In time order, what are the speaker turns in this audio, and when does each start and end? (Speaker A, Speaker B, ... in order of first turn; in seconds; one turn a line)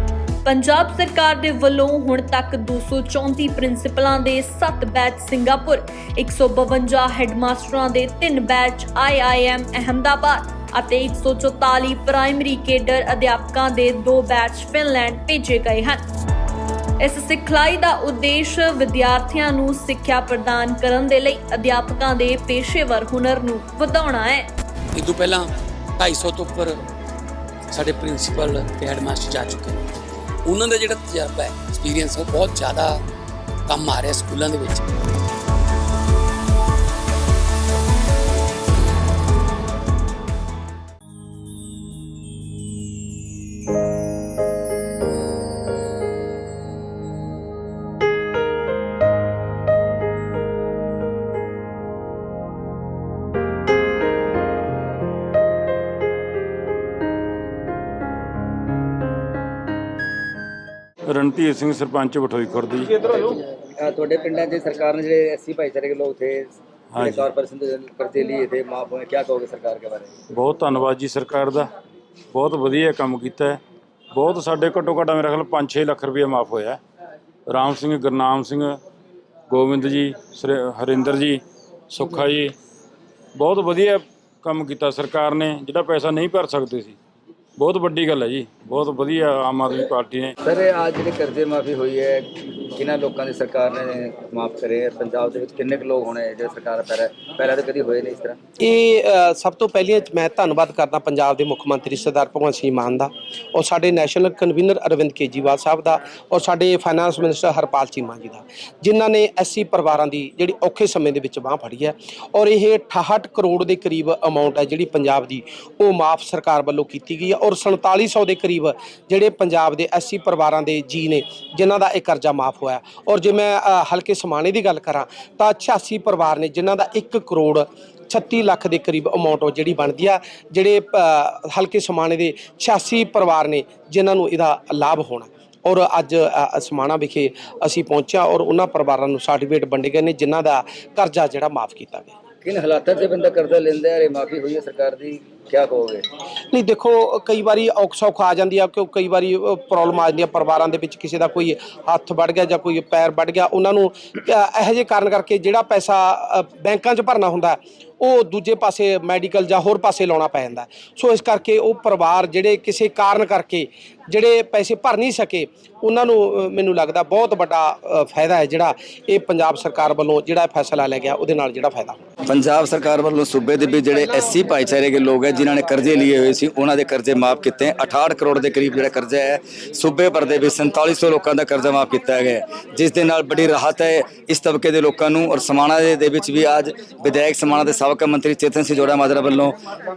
Speaker A: 0.4-16.0
Speaker A: 17.0-24.5
Speaker B: 25.0-25.4
Speaker B: 26.0-26.7
Speaker B: 27.7-29.7
Speaker B: 30.5-33.0
Speaker B: 33.7-34.8
Speaker C: 61.0-63.1
Speaker D: 63.1-70.1
Speaker C: 66.9-67.3
Speaker C: 70.3-71.7
Speaker C: 72.3-73.6
Speaker C: 74.1-76.8
Speaker C: 77.5-78.8
Speaker C: 79.5-82.5
Speaker C: 83.4-87.0
Speaker C: 87.6-90.3
Speaker D: 90.4-98.4
Speaker E: 98.6-142.1
Speaker D: 142.4-146.0
Speaker E: 146.5-172.0
Speaker F: 172.3-189.6